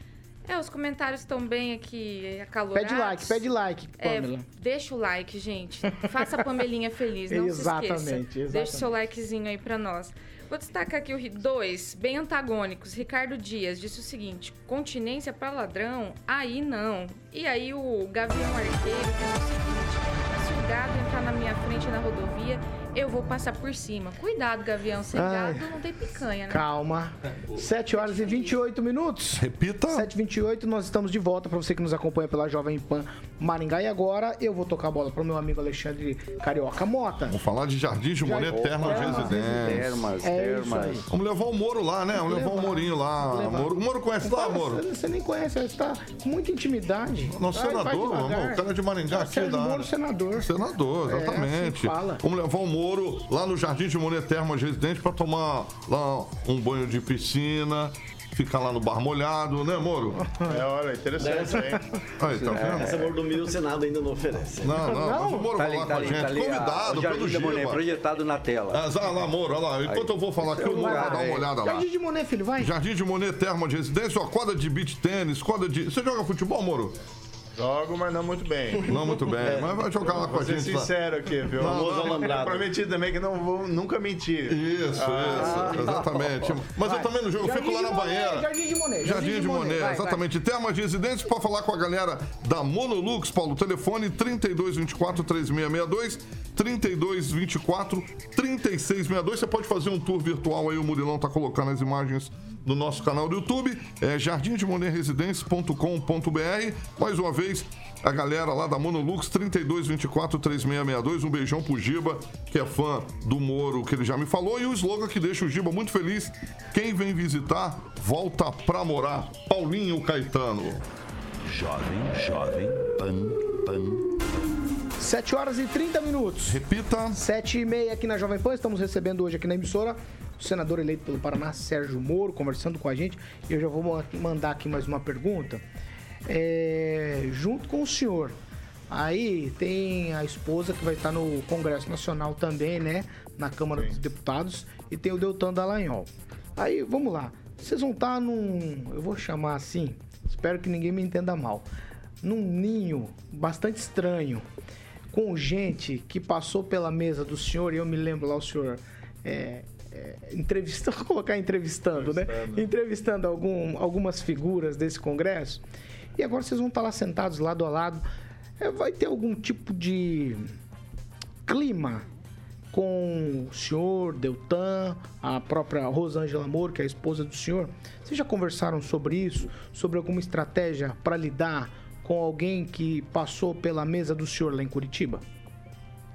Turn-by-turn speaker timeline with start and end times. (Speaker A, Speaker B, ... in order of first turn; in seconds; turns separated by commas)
Speaker A: 0.5-26.7, Speaker B: 2.7-4.4, Speaker B: 7.3-8.9, Speaker B: 25.1-25.7, Speaker B: 26.5-37.4, Speaker A: 27.7-28.6, Speaker C: 29.4-30.1, Speaker C: 37.3-40.1, Speaker B: 38.2-41.1, Speaker D: 38.5-41.1, Speaker C: 41.1-44.8, Speaker B: 42.1-50.5, Speaker C: 47.3-60.2, Speaker B: 51.1-52.2, Speaker B: 60.2-60.6, Speaker E: 60.5-61.9, Speaker F: 61.2-61.7, Speaker C: 62.2-63.0, Speaker D: 62.3-63.1, Speaker F: 62.7-64.8, Speaker C: 64.6-67.9, Speaker B: 64.7-65.5, Speaker D: 65.5-68.9, Speaker C: 68.7-71.9, Speaker D: 69.8-71.5, Speaker B: 70.7-72.7, Speaker C: 72.6-76.9, Speaker E: 77.6-79.0, Speaker C: 78.8-80.9, Speaker F: 79.4-79.8, Speaker E: 80.0-85.7, Speaker C: 81.6-82.3, Speaker F: 81.6-82.7, Speaker C: 84.5-88.5, Speaker B: 85.3-86.0, Speaker D: 85.4-86.5, Speaker B: 86.8-90.2, Speaker C: 89.0-120.8, Speaker G: 121.5-124.0, Speaker B: 125.0-135.6, Speaker C: 126.5-127.2, Speaker B: 136.2-138.3, Speaker B: 138.9-151.7, Speaker B: 152.2-154.4, Speaker B: 155.1-165.6, Speaker E: 161.9-162.7, Speaker B: 166.2-168.1, Speaker B: 168.6-170.5, Speaker B: 171.4-172.1, Speaker B: 172.7-185.2